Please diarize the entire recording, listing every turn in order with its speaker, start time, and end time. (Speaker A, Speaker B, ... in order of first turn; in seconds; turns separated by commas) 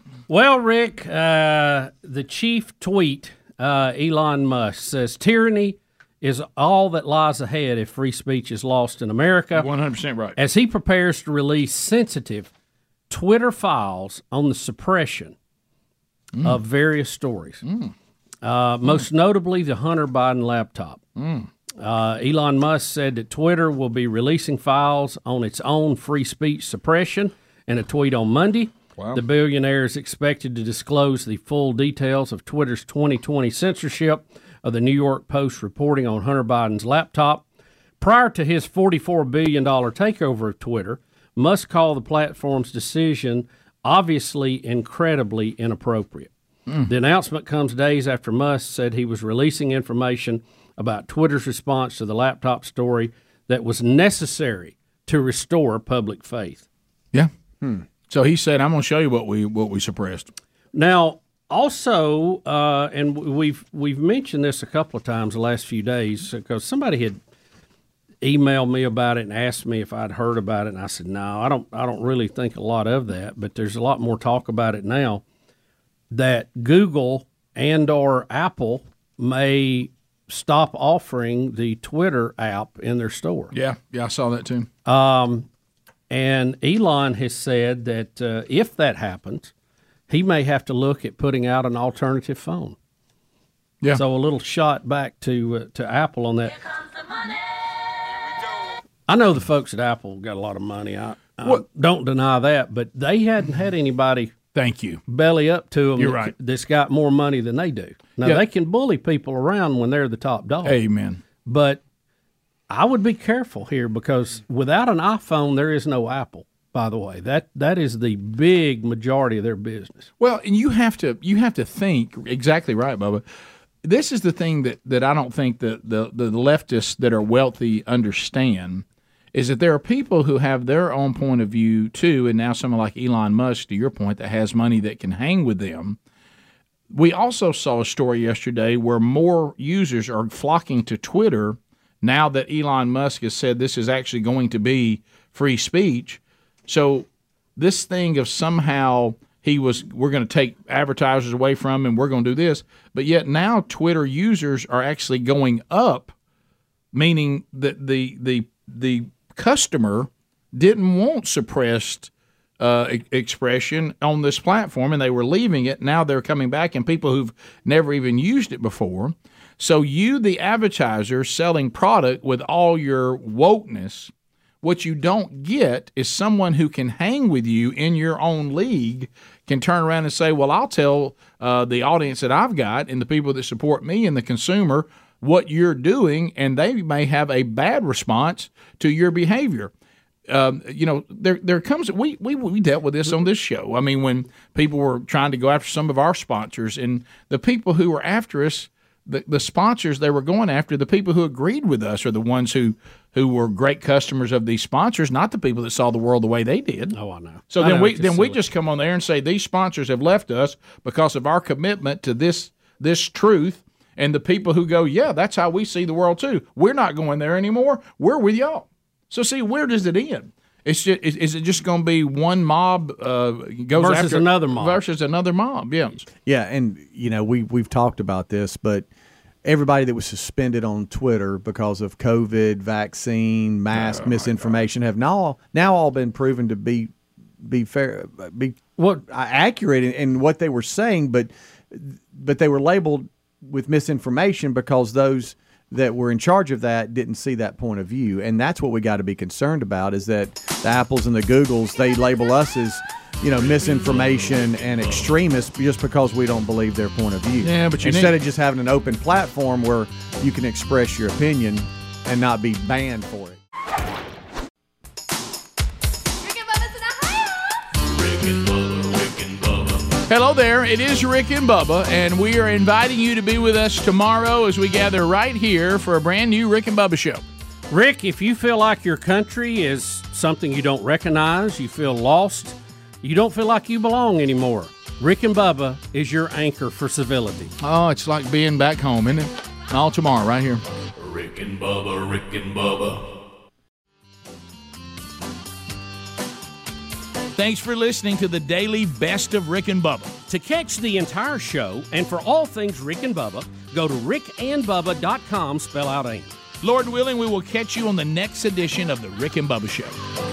Speaker A: 0.3-9.7, Speaker B: 9.5-10.4, Speaker A: 10.4-12.5, Speaker A: 13.1-15.3, Speaker B: 16.3-16.6, Speaker A: 16.4-17.6, Speaker B: 17.6-17.9, Speaker A: 18.4-21.0, Speaker B: 21.2-21.5, Speaker A: 21.8-37.4, Speaker B: 29.0-29.2, Speaker A: 38.0-46.3, Speaker A: 46.9-56.6, Speaker B: 58.1-60.3, Speaker A: 60.7-67.2, Speaker A: 68.2-75.2, Speaker A: 76.1-83.5, Speaker B: 83.5-84.7, Speaker A: 84.9-85.5, Speaker A: 86.1-89.5, Speaker A: 90.1-92.8, Speaker A: 93.9-96.6, Speaker A: 99.1-104.3, Speaker B: 104.5-105.0, Speaker A: 105.1-110.8, Speaker B: 106.0-106.3, Speaker B: 110.6-111.2, Speaker A: 111.5-111.8, Speaker A: 112.7-120.1, Speaker B: 120.2-123.2, Speaker B: 123.8-136.0, Speaker B: 136.9-156.1, Speaker B: 156.9-189.7, Speaker B: 190.3-207.0, Speaker A: 206.9-208.4, Speaker B: 207.5-226.1, Speaker A: 223.8-224.8, Speaker C: 226.2-228.9, Speaker C: 229.4-236.9, Speaker B: 233.7-234.5, Speaker C: 237.4-263.4, Speaker A: 238.8-239.0, Speaker D: 253.4-255.1, Speaker B: 257.4-258.2, Speaker D: 266.3-270.0, Speaker B: 270.1-277.2, Speaker A: 277.7-287.5, Speaker B: 287.6-290.6, Speaker D: 291.0-293.1, Speaker B: 297.3-300.2, Speaker A: 300.3-306.3, Speaker B: 306.6-310.0